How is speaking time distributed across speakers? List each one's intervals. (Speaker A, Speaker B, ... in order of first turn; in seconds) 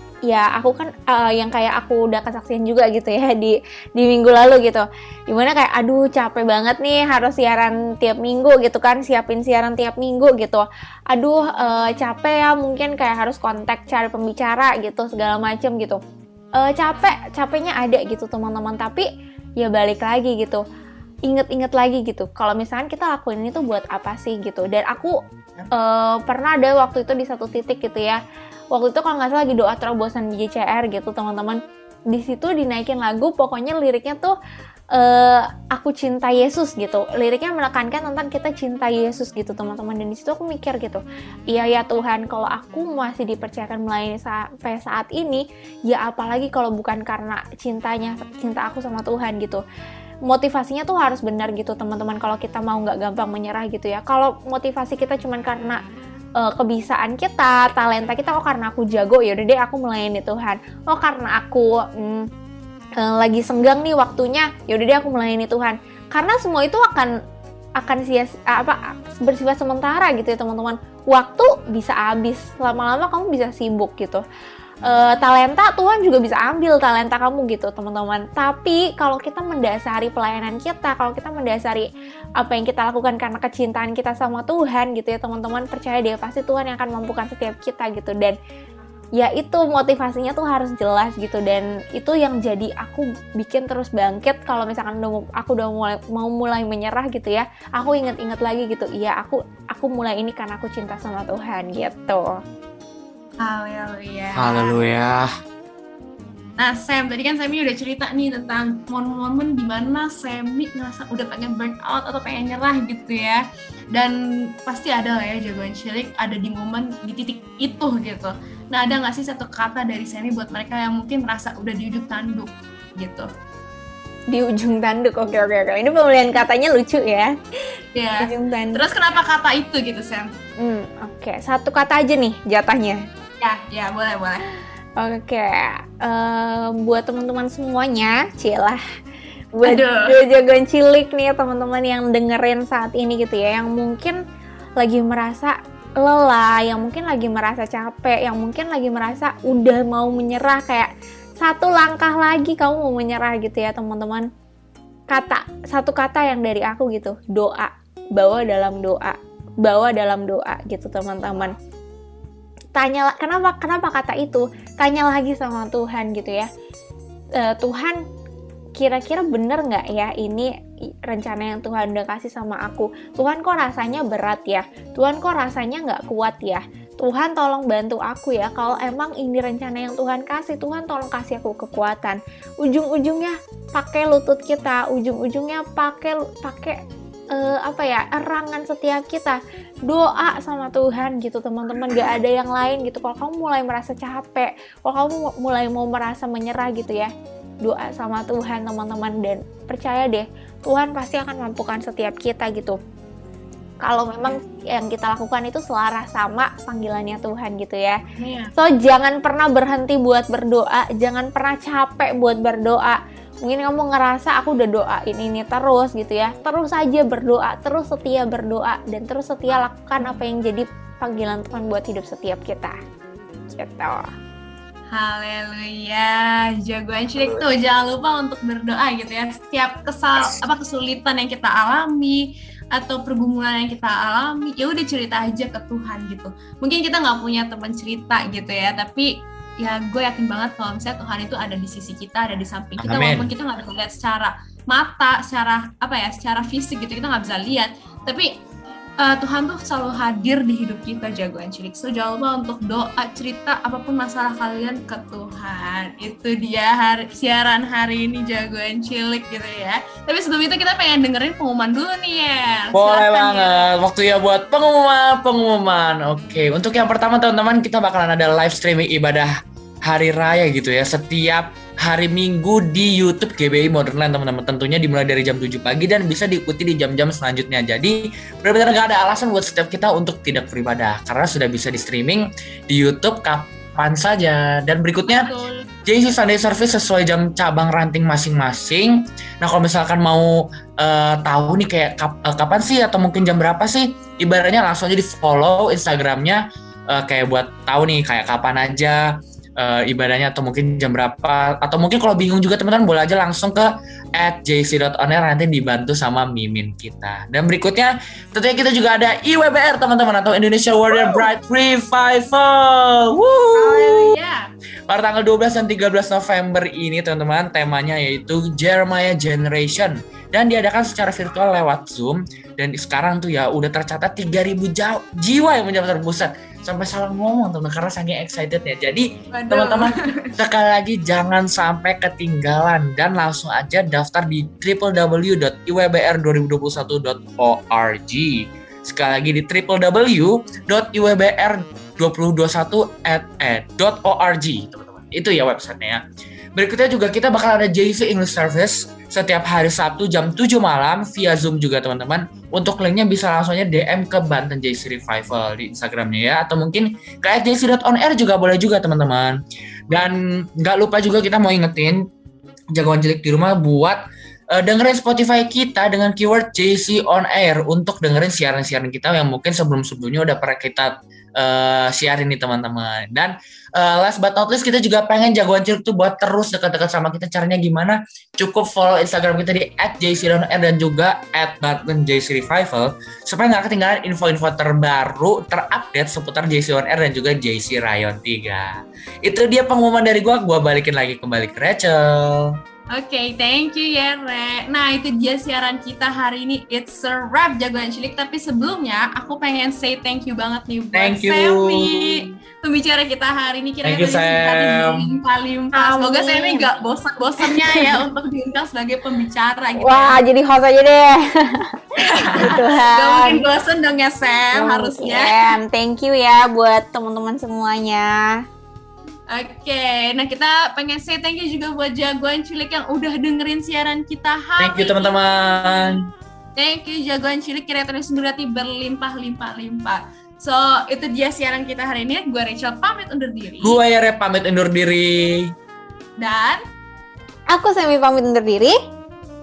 Speaker A: 0.3-16.0, 16.6-19.1, 19.6-20.6, 21.3-25.2, 25.7-28.2, 28.7-34.3, 34.9-49.6, 50.3-55.8, 56.4-62.3, 63.0-67.1, 67.8-74.2, 74.8-81.9, 82.4-88.3, 89.2-102.3, 124.3-127.3, 128.2-128.8, 130.6-133.0, 135.0-138.8, 139.5-144.2, 144.8-154.3, 155.1-161.5, 162.7-166.5, 167.4-168.0, 168.8-170.5, 171.0-186.8, 187.3-197.1, 197.6-202.8, 203.8-208.0, 208.6-222.8, 223.5-224.1, 405.7-406.6, 407.4-407.9, 409.8-413.4, 414.4-418.4, 437.5-438.8
Speaker B: 103.4-104.8, 106.6-123.3, 127.9-130.3, 133.4-134.4, 139.6-140.2, 208.2-208.5, 224.9-248.3, 249.0-263.7, 285.1-285.7, 313.5-314.5, 329.3-330.3, 392.9-410.2, 412.0-415.5, 419.3-425.1, 426.6-433.8, 436.2-436.6
Speaker C: 104.3-105.3, 242.8-243.3, 262.7-269.3, 269.9-285.3, 285.9-299.1, 299.6-314.2, 314.9-346.0, 346.5-362.0, 362.7-364.0, 364.5-392.5, 400.9-402.3, 403.8-405.1, 424.6-426.1, 433.6-435.5